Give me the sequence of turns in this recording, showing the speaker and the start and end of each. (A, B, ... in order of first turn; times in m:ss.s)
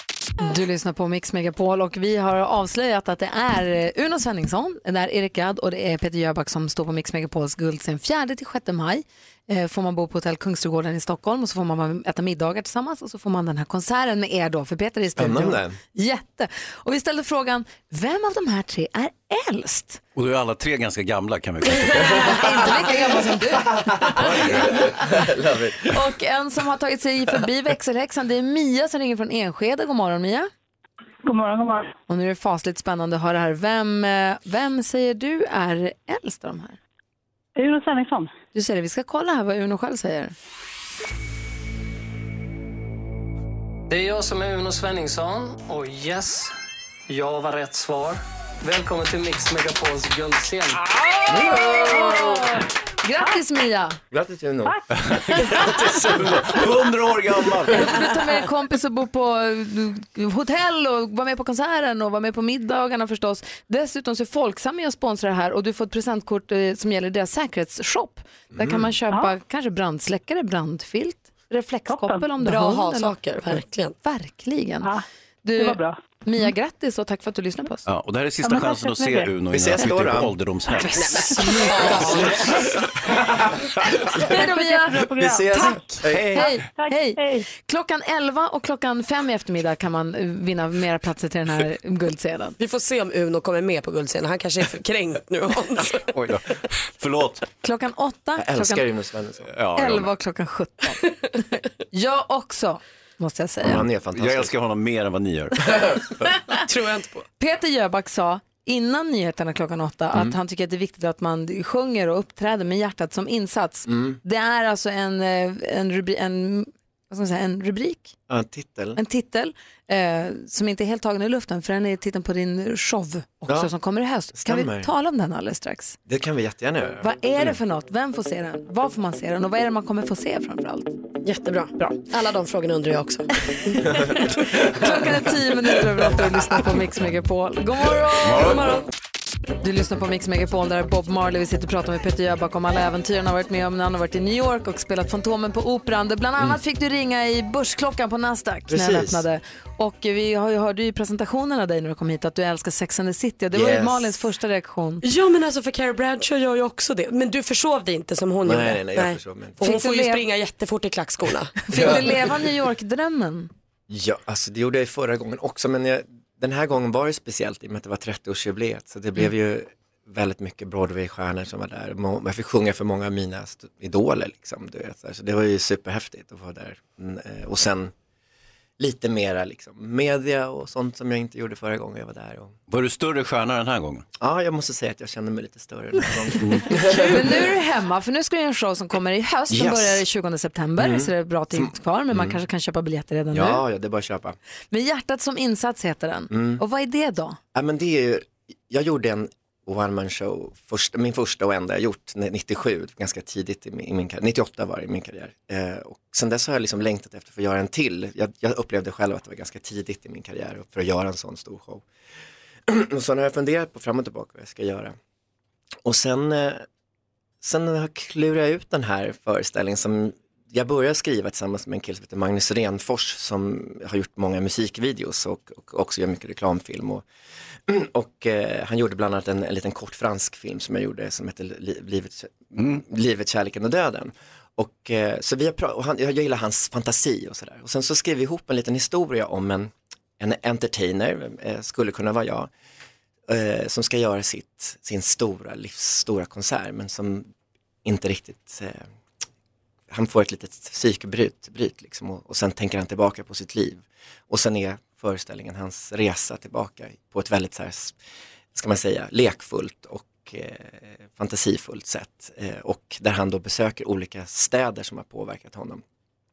0:00.4-0:20.0 A
0:15.2-0:15.8 B
0:20.2-0:22.4 C
0:22.1-0:25.0 A
0:23.7-0:25.9 B
0:24.2-0:24.8 C
0:25.9-0:30.5 A
0:31.2-0:31.9 D
0:32.1-0:36.8 A
0:37.6-0:38.3 D
0:38.5-0:40.3 A
0:43.9-0:46.5 E
0:47.1-0:50.8 E
0:51.3-0:52.0 B
0:51.3-0:54.0 A
0:54.1-0:54.8 B
0:55.1-0:57.9 C
0:55.5-0:56.2 B
0:57.7-1:14.9 A
1:08.6-1:08.9 B
1:11.9-1:12.3 D
1:12.4-1:13.9 F
1:15.4-1:17.8 A
1:15.6-1:16.0 D
1:17.8-1:21.1 C
1:18.5-1:19.3 D
1:19.4-1:20.3 B
1:21.0-1:22.2 F
1:21.1-1:21.7 A
1:24.3-1:32.6 A
1:24.4-1:25.8 D
1:25.1-1:26.6 B
1:26.3-1:27.4 D
1:32.6-1:36.1 F
1:37.0-1:37.4 C
1:37.6-1:38.8 A
1:38.4-1:39.5 B
1:39.5-1:40.1 C
1:39.7-1:41.4 A
1:41.9-1:43.8 A
1:43.6-1:44.5 B
1:43.7-1:45.7 C
1:46.6-1:47.2 F
1:47.4-1:58.1 A
1:53.9-1:54.2 B
1:58.3-1:59.0 B
1:59.0-2:06.0 A
2:03.5-2:03.7 B
2:04.3-2:04.9 B
2:06.0-2:07.5 B
2:07.0-2:11.0 A
2:11.2-2:14.1 F
2:14.6-2:18.5 A
2:18.2-2:18.7 C
2:18.4-2:18.8 F
2:19.6-2:35.0 A
2:28.7-2:29.2 B
2:33.5-2:34.1 B
2:35.0-2:41.9 F
2:38.4-2:39.6 B
2:39.6-2:40.2 A
2:41.7-2:43.5 A
2:41.7-2:42.0 B
2:43.9-2:57.9 B
2:58.8-3:02.6 B
3:02.7-3:04.0 C
3:04.2-3:07.5 B
3:06.8-3:13.6 A
3:09.5-3:10.0 B
3:10.8-3:12.4 B
3:13.3-3:14.4 B
3:14.7-3:17.4 A
3:16.3-3:16.6 B
3:17.5-3:31.8 B
3:32.7-3:35.0 B
3:35.8-3:36.6 B
3:37.4-3:47.0 B
3:47.7-4:02.5 B
4:03.3-4:07.3 B
4:07.8-4:08.9 B
4:09.9-4:18.0 B
4:18.5-4:25.8 B